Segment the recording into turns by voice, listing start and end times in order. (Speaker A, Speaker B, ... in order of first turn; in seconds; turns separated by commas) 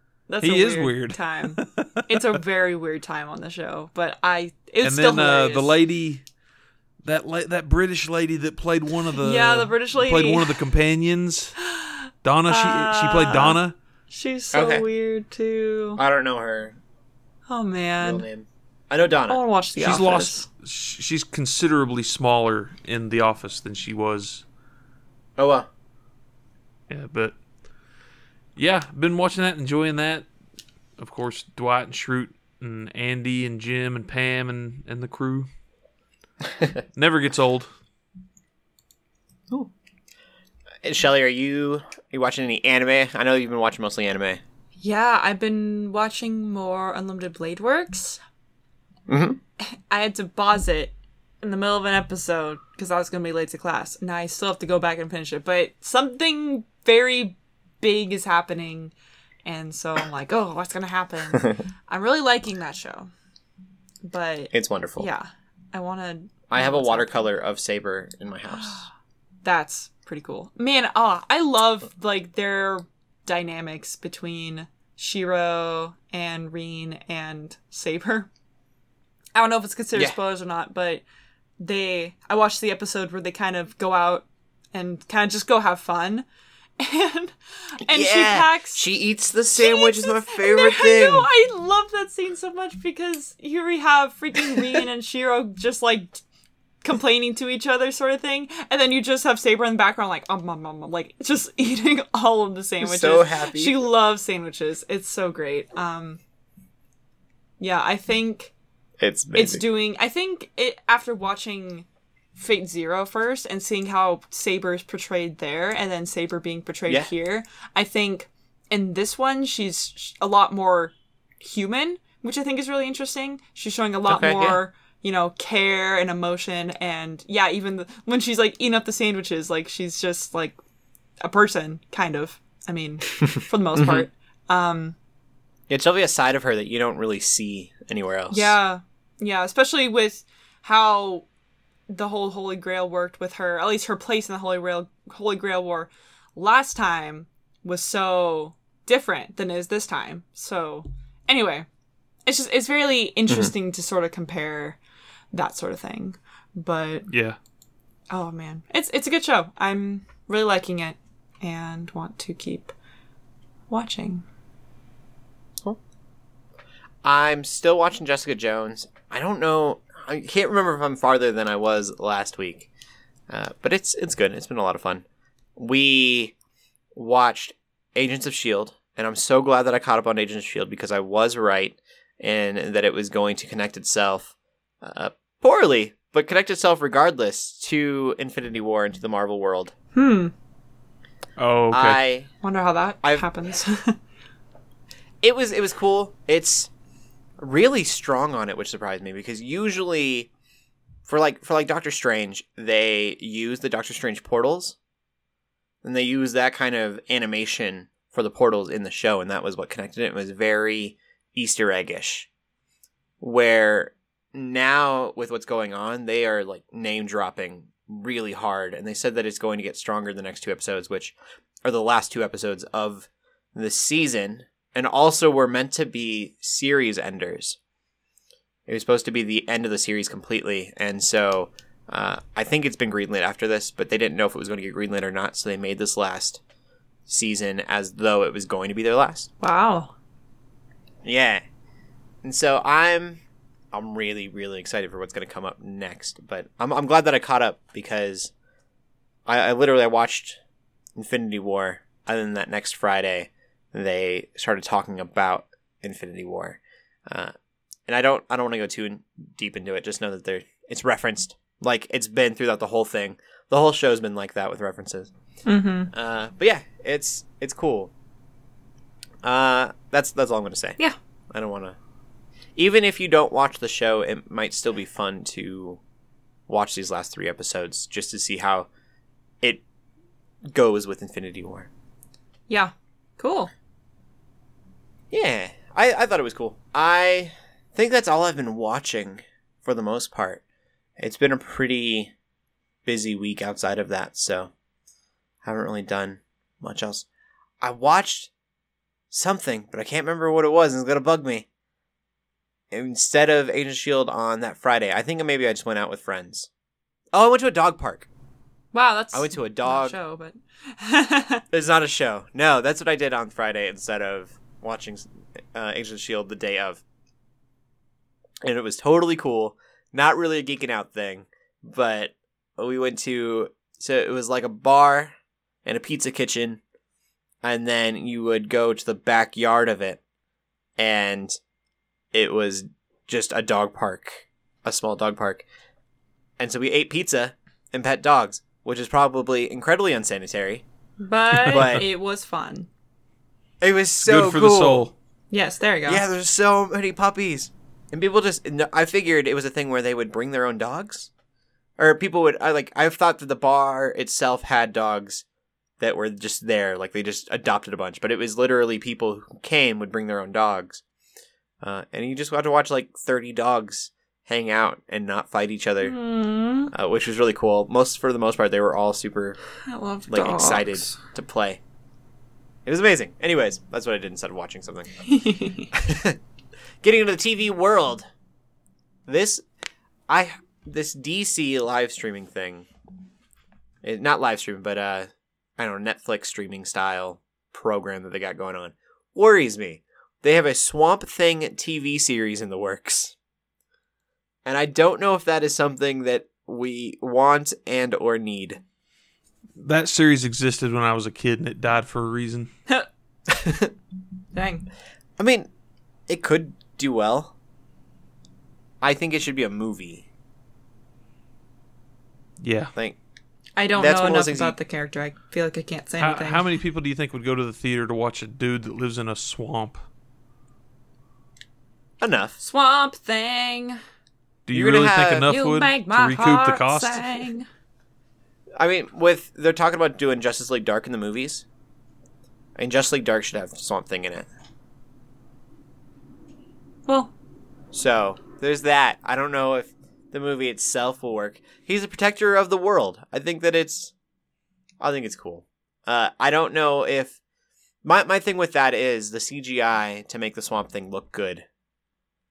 Speaker A: 0.3-5.7, Speaker B: 0.4-2.1, Speaker B: 4.8-6.2, Speaker B: 7.0-11.6, Speaker A: 9.2-10.7, Speaker A: 11.7-13.6, Speaker B: 12.2-13.7, Speaker A: 14.1-16.0, Speaker C: 14.5-14.8, Speaker C: 16.0-16.8, Speaker A: 17.5-18.2, Speaker C: 18.0-19.4, Speaker A: 19.3-20.4, Speaker B: 19.8-24.4, Speaker C: 25.4-25.7, Speaker B: 26.9-27.4, Speaker B: 28.6-30.3, Speaker B: 31.0-35.5, Speaker B: 36.9-37.7, Speaker C: 40.8-44.4, Speaker A: 44.8-48.2, Speaker C: 49.1-49.4, Speaker A: 49.9-58.9, Speaker A: 59.4-63.1, Speaker A: 64.0-67.3, Speaker C: 64.5-65.1, Speaker C: 66.5-68.9, Speaker A: 68.5-68.9, Speaker A: 69.4-78.3, Speaker A: 79.3-81.0, Speaker A: 81.6-86.2, Speaker A: 86.8-88.8, Speaker C: 87.9-91.3, Speaker A: 89.5-96.2, Speaker A: 96.8-106.2, Speaker C: 102.8-103.8, Speaker A: 107.6-108.5, Speaker C: 109.0-109.6, Speaker A: 109.3-130.6, Speaker C: 124.1-124.6, Speaker A: 131.2-134.9, Speaker C: 133.7-134.1, Speaker C: 135.7-138.5, Speaker A: 138.3-141.2, Speaker A: 141.9-151.7, Speaker A: 152.3-154.8, Speaker A: 155.3-157.1, Speaker B: 157.1-157.4, Speaker A: 158.1-162.7, Speaker A: 163.7-164.2, Speaker C: 167.0-172.7, Speaker C: 173.3-175.0, Speaker C: 175.6-176.3, Speaker C: 176.9-189.7, Speaker A: 189.9-190.3, Speaker B: 191.4-192.0, Speaker C: 191.7-192.3, Speaker A: 192.4-194.0, Speaker C: 195.2-196.7, Speaker C: 197.4-200.3, Speaker C: 201.1-204.8, Speaker C: 205.8-212.3, Speaker C: 213.2-227.6, Speaker C: 228.7-236.4, Speaker C: 237.1-239.3, Speaker A: 239.4-239.9, Speaker C: 241.0-241.4, Speaker C: 242.2-243.2, Speaker C: 243.7-248.3, Speaker C: 249.3-250.4, Speaker C: 250.9-257.3, Speaker C: 257.9-265.1, Speaker A: 265.4-265.9, Speaker C: 265.9-267.9, Speaker C: 269.2-270.8, Speaker C: 271.3-271.8, Speaker C: 272.6-275.8, Speaker C: 276.5-278.7, Speaker C: 280.5-281.7, Speaker A: 282.5-283.5, Speaker C: 285.1-290.4, Speaker C: 291.0-292.1, Speaker C: 292.8-294.5, Speaker C: 295.4-297.1, Speaker C: 297.6-298.3, Speaker C: 299.1-301.4, Speaker C: 302.7-306.5, Speaker C: 307.1-308.1, Speaker A: 308.7-311.4, Speaker C: 309.1-309.9, Speaker C: 311.5-316.8, Speaker C: 318.4-326.6, Speaker C: 327.4-330.0, Speaker C: 330.8-331.4, Speaker C: 332.1-335.4, Speaker C: 336.4-340.6, Speaker A: 341.0-342.7, Speaker C: 341.5-341.9, Speaker C: 343.6-344.8, Speaker B: 344.0-344.9, Speaker A: 345.3-346.0, Speaker C: 345.9-351.1, Speaker C: 351.8-355.2, Speaker C: 355.8-360.8, Speaker C: 361.6-365.9, Speaker A: 365.8-366.7, Speaker C: 366.7-369.4, Speaker A: 369.7-371.0, Speaker C: 370.1-371.6, Speaker C: 372.6-374.9, Speaker A: 375.0-375.7, Speaker C: 375.7-376.2, Speaker C: 376.8-378.0, Speaker C: 379.1-379.4, Speaker C: 380.1-382.7, Speaker C: 383.8-393.1, Speaker C: 394.4-398.6, Speaker B: 399.6-402.5, Speaker C: 403.3-403.7, Speaker A: 404.3-404.6, Speaker C: 405.2-405.5, Speaker C: 406.1-407.3, Speaker C: 408.8-410.1, Speaker B: 412.4-412.7, Speaker A: 413.6-416.4, Speaker C: 413.8-414.6, Speaker B: 416.0-419.8, Speaker C: 422.0-422.4, Speaker A: 422.4-423.8, Speaker B: 424.5-427.2, Speaker C: 424.5-425.3, Speaker A: 425.2-427.4, Speaker C: 428.6-431.4, Speaker C: 432.6-434.3, Speaker A: 436.9-437.1, Speaker C: 437.7-443.9, Speaker C: 444.8-447.2, Speaker C: 447.8-451.4